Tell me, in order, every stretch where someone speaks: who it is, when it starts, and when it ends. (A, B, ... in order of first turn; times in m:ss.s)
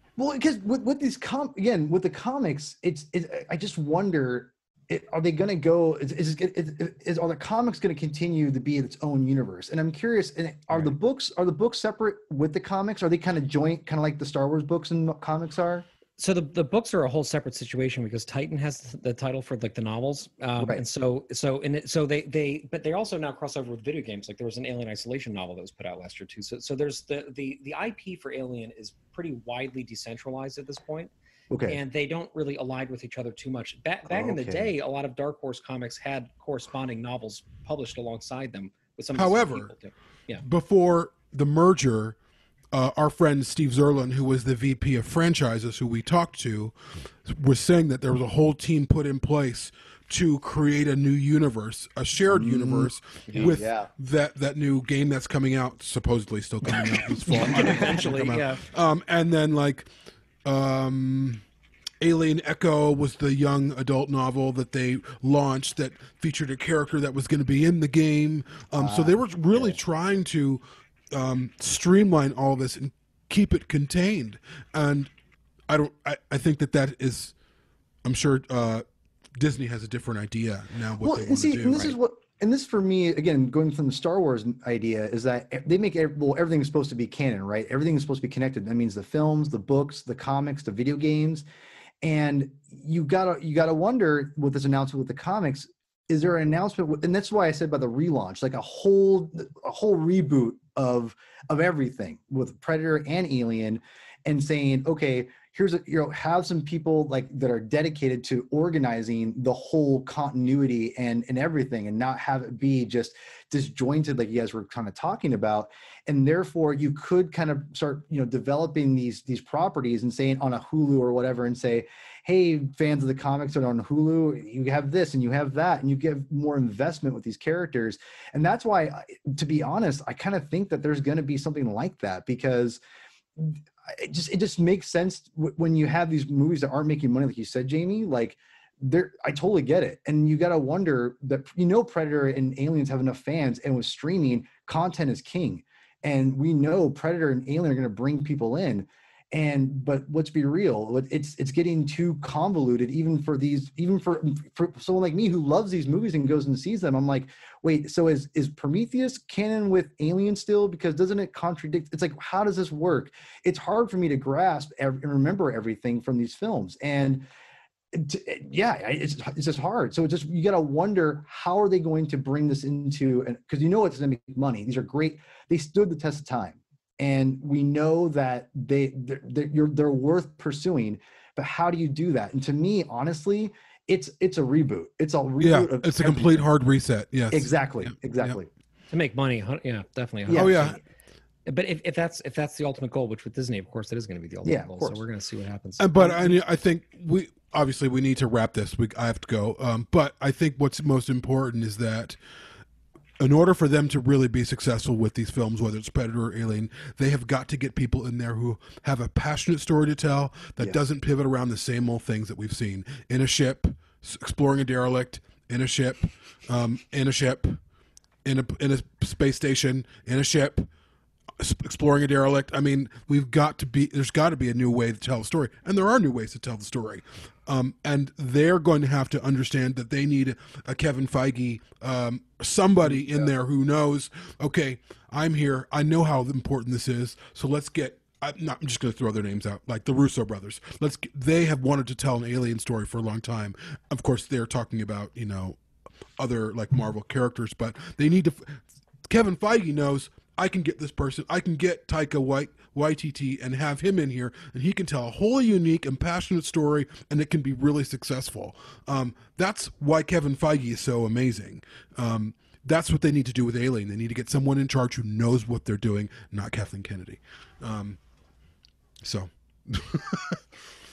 0:00.2-0:15.9 A
0:16.2-0:31.1 B
0:31.5-0:31.8 A
0:31.7-0:40.4 B
0:34.1-0:34.7 A
0:39.2-0:39.7 C
0:40.4-0:42.2 C
0:42.7-0:59.9 C
0:52.3-0:53.9 A
0:53.3-0:53.6 B
0:57.3-0:58.6 B
0:57.4-0:57.8 A
1:00.4-1:01.4 C
1:02.0-1:15.1 C
1:08.8-1:09.8 A
1:15.7-1:17.3 C
1:18.0-1:18.8 C
1:19.4-1:22.0 C
1:21.0-1:31.4 A
1:32.0-2:12.8 A
2:13.4-2:47.2 A
2:47.9-3:06.5 A
3:05.4-3:08.4 C
3:07.3-3:08.5 A
3:08.9-3:10.8 B
3:10.3-3:10.8 A
3:10.3-3:10.8 C
3:11.5-3:16.4 B
3:14.4-3:15.0 A
3:15.8-3:22.2 C
3:23.2-3:37.6 C
3:38.2-3:40.7 C
3:41.4-4:05.6 C
3:52.8-3:53.3 A
4:06.2-4:28.0 C
4:29.0-4:30.4 C